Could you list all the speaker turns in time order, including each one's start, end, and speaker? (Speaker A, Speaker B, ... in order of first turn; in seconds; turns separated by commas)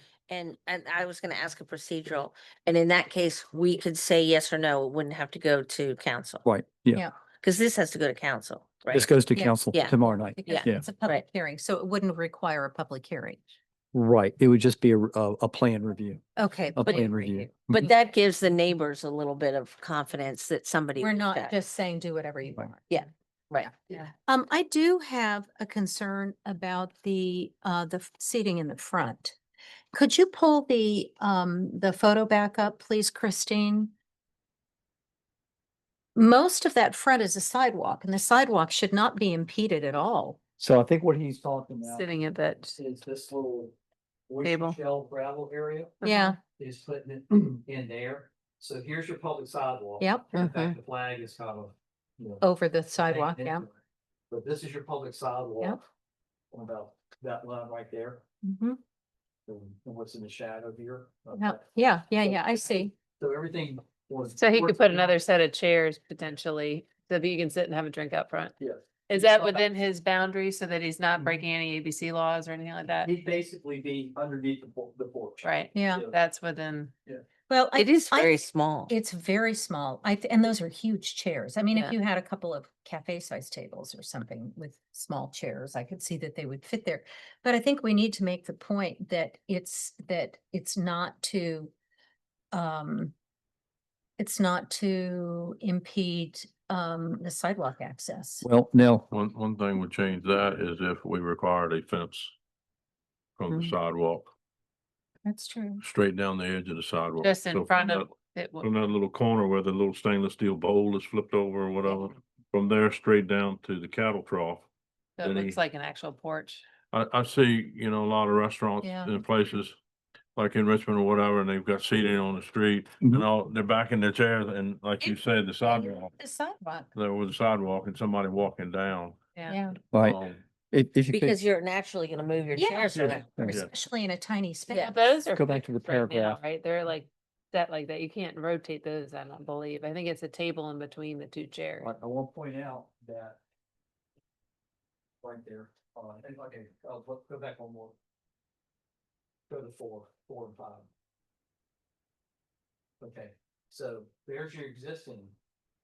Speaker A: 0.3-6.4, Speaker B: 6.4-7.0, Speaker A: 7.4-9.1, Speaker B: 8.9-10.9, Speaker C: 9.3-13.4, Speaker A: 10.4-11.2, Speaker B: 13.9-16.2, Speaker C: 16.4-17.5, Speaker B: 16.7-17.9, Speaker A: 17.7-21.5, Speaker C: 21.0-22.9, Speaker A: 22.9-23.7, Speaker C: 23.6-29.4, Speaker C: 29.9-33.9, Speaker C: 36.1-40.4, Speaker B: 40.6-42.1, Speaker D: 41.8-42.8, Speaker B: 42.8-43.7, Speaker B: 44.3-46.0, Speaker D: 44.4-44.8, Speaker D: 46.0-46.4, Speaker C: 46.0-46.4, Speaker B: 46.6-52.4, Speaker C: 50.0-50.3, Speaker A: 50.3-50.8, Speaker C: 52.4-53.7, Speaker B: 53.0-53.8, Speaker B: 54.3-55.8, Speaker B: 56.5-58.2, Speaker C: 58.4-58.8, Speaker B: 59.5-61.7, Speaker C: 61.3-62.9, Speaker B: 62.2-65.1, Speaker D: 64.3-68.5, Speaker B: 68.6-69.7, Speaker D: 69.1-73.1, Speaker B: 73.0-76.2, Speaker D: 75.4-76.9, Speaker C: 75.7-76.0, Speaker C: 77.5-91.7, Speaker A: 77.7-78.9, Speaker C: 92.5-93.1, Speaker C: 94.2-98.4, Speaker B: 98.4-99.1, Speaker E: 99.1-102.3, Speaker E: 103.4-104.3, Speaker C: 105.2-105.8, Speaker E: 105.8-114.7, Speaker D: 107.2-108.7, Speaker D: 115.2-116.6, Speaker E: 115.2-115.6, Speaker E: 116.9-119.8, Speaker C: 118.8-119.2, Speaker E: 120.3-126.1, Speaker C: 125.0-126.9, Speaker E: 126.9-129.2, Speaker D: 129.3-129.6, Speaker C: 129.5-129.8, Speaker B: 129.9-130.2, Speaker E: 129.9-130.4, Speaker B: 130.7-131.4, Speaker A: 131.1-133.3, Speaker C: 132.5-135.1, Speaker E: 132.9-133.7, Speaker B: 133.3-133.6, Speaker D: 134.7-141.9, Speaker B: 135.3-136.4, Speaker B: 141.8-143.4, Speaker B: 145.2-147.9, Speaker B: 149.5-150.9, Speaker B: 153.0-155.3